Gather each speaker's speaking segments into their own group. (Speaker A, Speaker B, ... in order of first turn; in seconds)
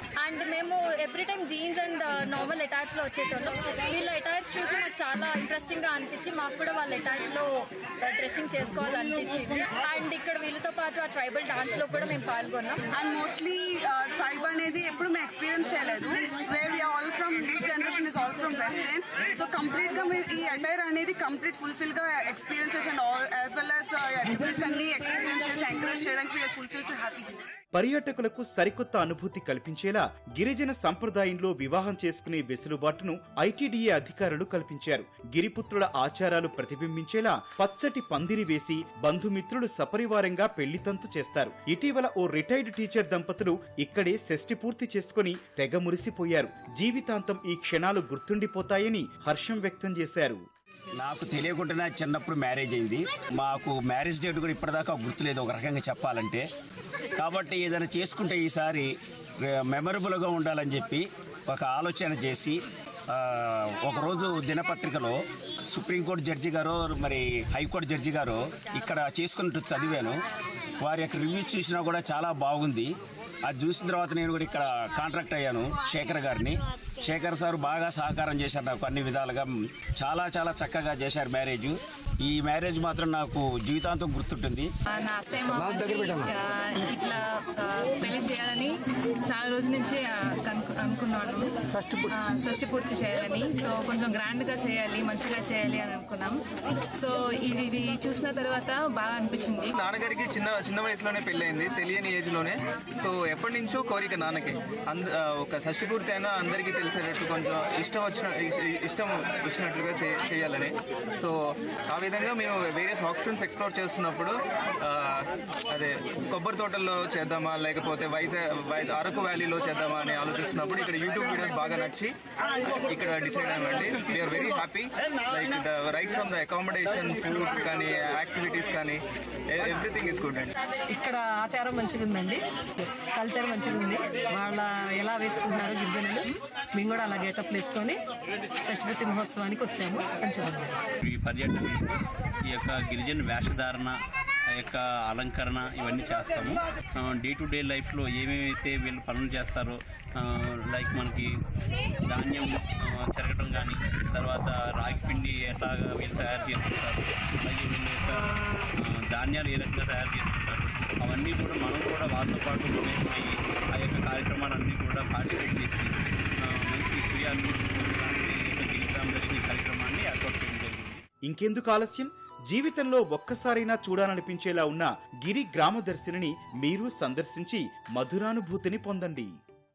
Speaker A: 0.2-7.5, 8.0-12.8
Speaker B: 12.9-27.5
Speaker C: 27.7-50.4, 171.3-179.3
Speaker D: 51.0-56.4, 57.2-62.6, 63.1-65.1, 65.7-70.1, 70.8-72.9, 73.5-84.7
Speaker E: 84.9-91.5, 92.0-96.4, 97.0-99.7
Speaker F: 99.7-111.3, 111.9-122.1, 122.8-129.0, 129.5-130.5
Speaker G: 130.9-132.4, 133.1-138.0, 138.6-140.8
Speaker H: 141.0-141.9, 142.4-143.9, 144.5-151.3, 152.0-171.0